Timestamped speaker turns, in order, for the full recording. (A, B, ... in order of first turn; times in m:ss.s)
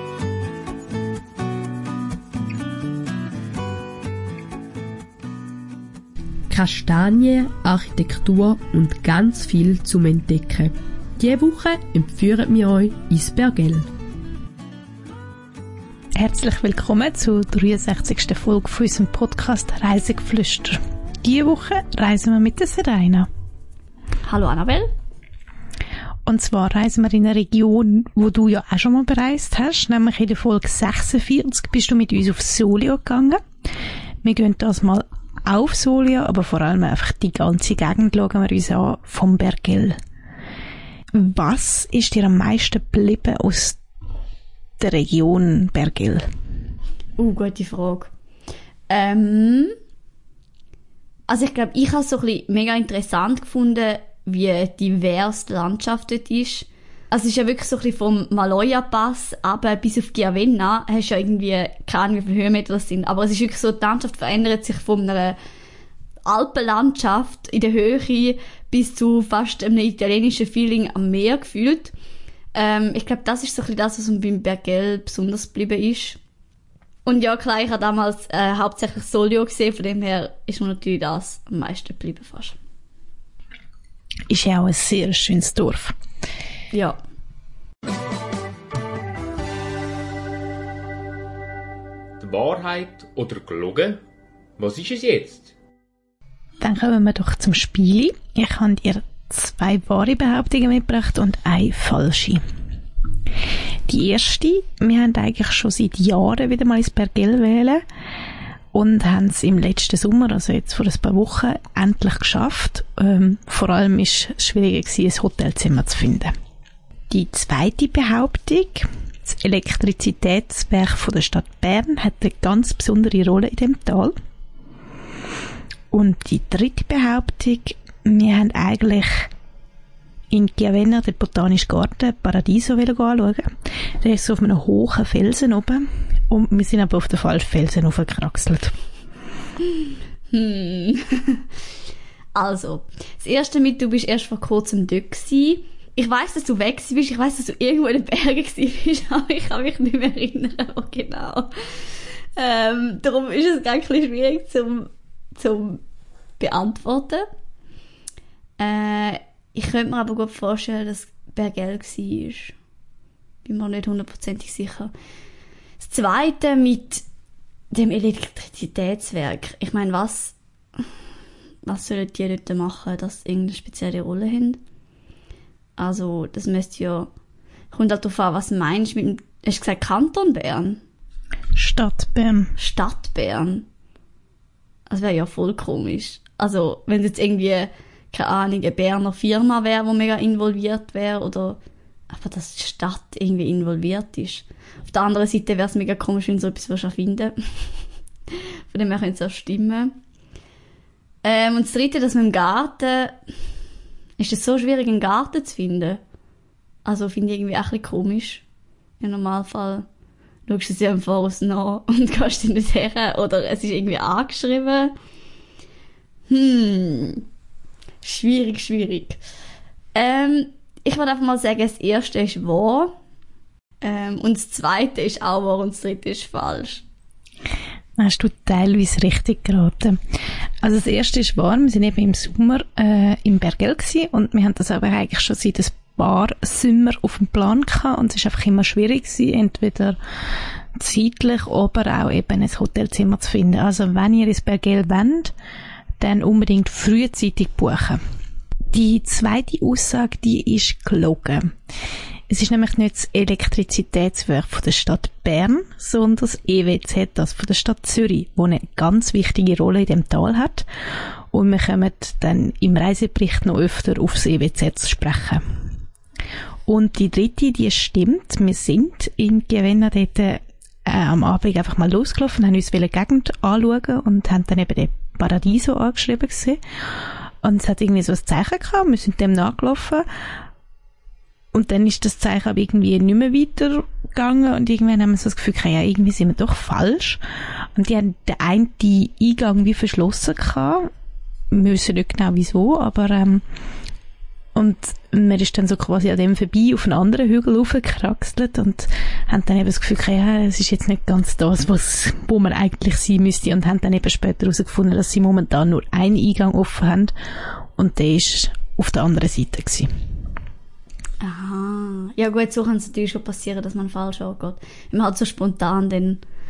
0:06.5-0:13.9 A
0:16.2-0:23.3 B
0:24.2-0:24.9 C
0:26.2-0:33.4 B
0:34.2-0:40.0 B
0:41.1-0:43.8 B
0:44.8-0:46.2 B
0:47.2-0:48.1 C
0:48.9-0:49.7 C
0:51.3-1:05.4 C
1:06.2-1:11.9 C
1:12.5-1:16.2 C
1:17.0-1:22.6 C
1:24.3-1:26.0 B
1:26.7-1:27.0 C
1:32.2-1:34.0 D
1:34.6-1:35.5 D
1:36.6-1:42.4 B
1:43.9-1:47.8 B
1:48.7-1:56.3 B
1:57.1-2:04.1 B
2:05.9-2:09.3 B
2:10.3-2:18.7 B
2:20.3-2:21.4 C
2:22.3-2:31.5 C
2:32.4-2:35.8 C
2:36.4-2:37.2 C
2:38.6-2:42.5 C
2:43.4-2:44.9 C
2:45.8-2:47.0 C
2:47.7-2:50.4 C
2:51.6-2:54.6 C
2:55.8-2:57.1 C
2:57.7-3:00.8 C
3:01.5-3:02.5 B
3:02.6-3:03.6 C
3:04.9-3:11.6 C
3:12.1-3:17.6 C
3:18.7-3:19.9 C
3:21.2-3:23.2 C
3:24.2-3:26.0 C
3:26.8-3:28.4 C
3:29.0-3:29.8 C
3:30.5-3:34.9 C
3:36.3-3:37.2 C
3:38.0-3:39.2 C
3:39.9-3:43.0 C
3:43.8-3:46.8 C
3:48.0-3:50.0 B
3:50.6-4:00.0 B
4:00.7-4:05.3 B
4:06.0-4:08.0 B
4:08.7-4:11.5 B
4:12.3-4:20.7 B
4:21.3-4:25.6 B
4:26.7-4:36.6 B
4:37.4-4:40.0 B
4:41.5-4:47.2 B
4:47.8-4:50.9 B
4:51.5-4:53.4 B
4:54.5-5:07.1 B
5:07.8-5:09.9 B
5:11.2-5:16.2 C